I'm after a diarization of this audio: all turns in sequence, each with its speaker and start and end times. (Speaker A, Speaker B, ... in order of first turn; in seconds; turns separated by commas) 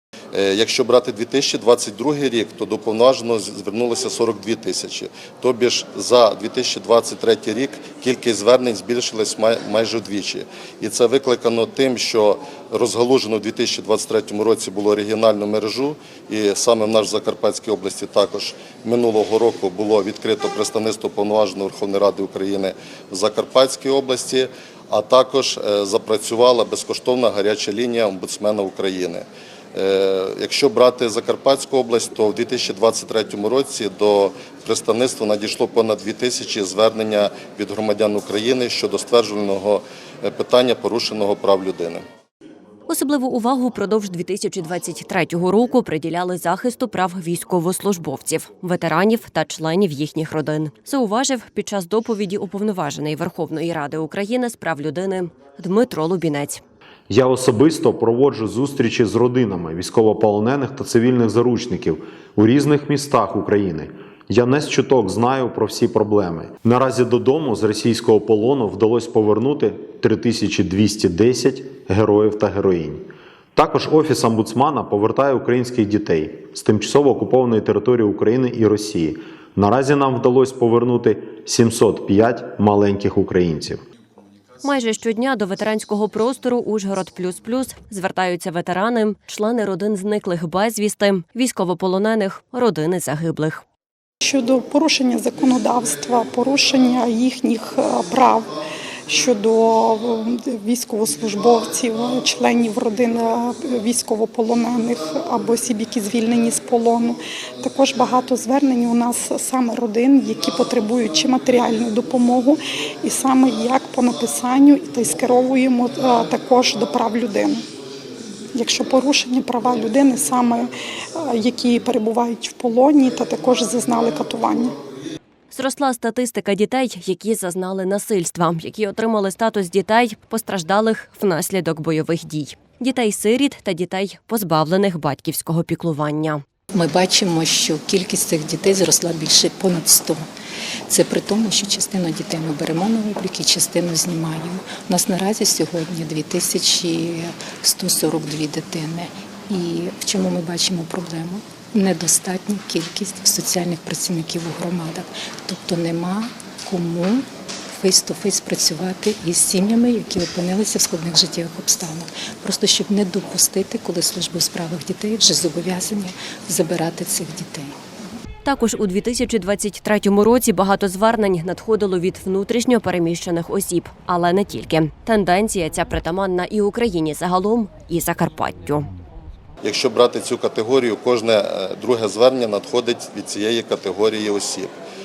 Speaker A: 0.3-42.0, Speaker B: 42.9-56.6, Speaker C: 57.1-83.8, Speaker B: 84.6-93.6, Speaker D: 94.2-98.5, Speaker D: 99.1-117.6, Speaker D: 118.5-124.8, Speaker B: 125.5-136.4, Speaker E: 136.7-140.2, Speaker E: 140.9-157.2, Speaker E: 157.8-167.7, Speaker B: 168.4-178.9, Speaker A: 179.6-184.7